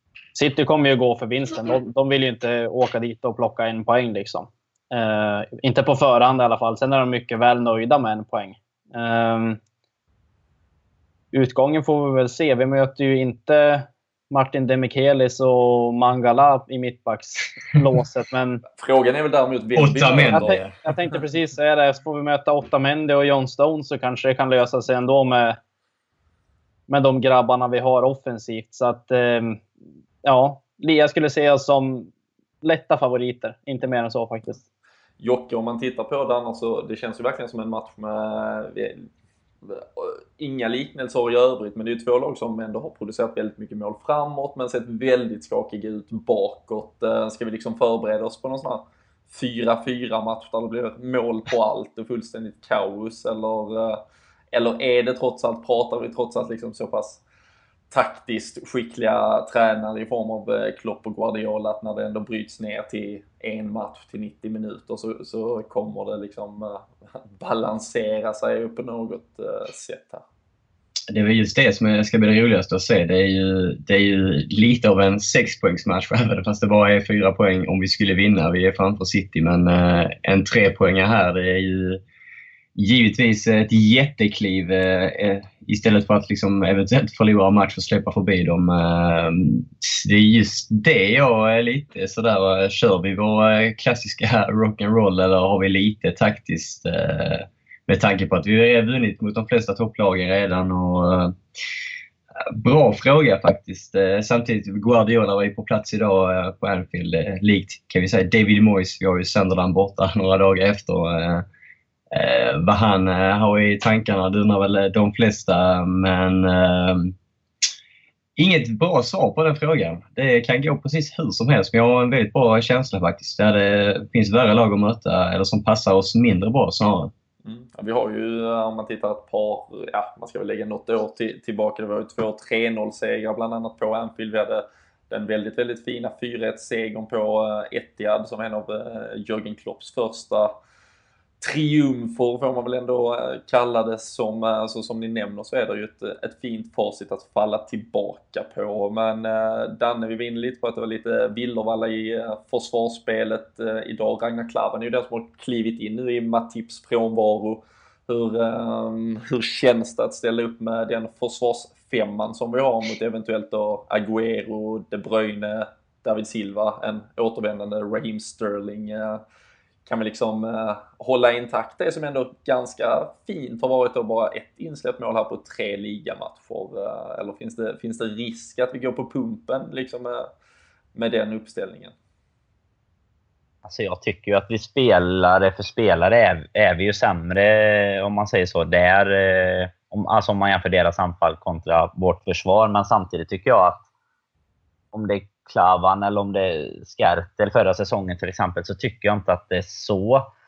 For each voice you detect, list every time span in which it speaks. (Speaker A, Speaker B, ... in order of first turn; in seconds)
Speaker A: 0.3-9.6, 11.3-18.6, 20.3-25.6, 26.9-29.6, 30.2-32.1, 32.6-34.6
Speaker B: 18.8-20.6, 35.2-39.1, 39.7-54.0, 54.5-57.2, 57.9-70.2, 127.5-140.5, 141.4-169.2, 169.9-180.3, 180.9-181.9
Speaker C: 19.8-20.9, 71.1-82.0, 82.8-101.4, 102.6-111.5, 112.1-117.2, 118.4-127.1
Speaker D: 183.7-193.8, 194.9-200.3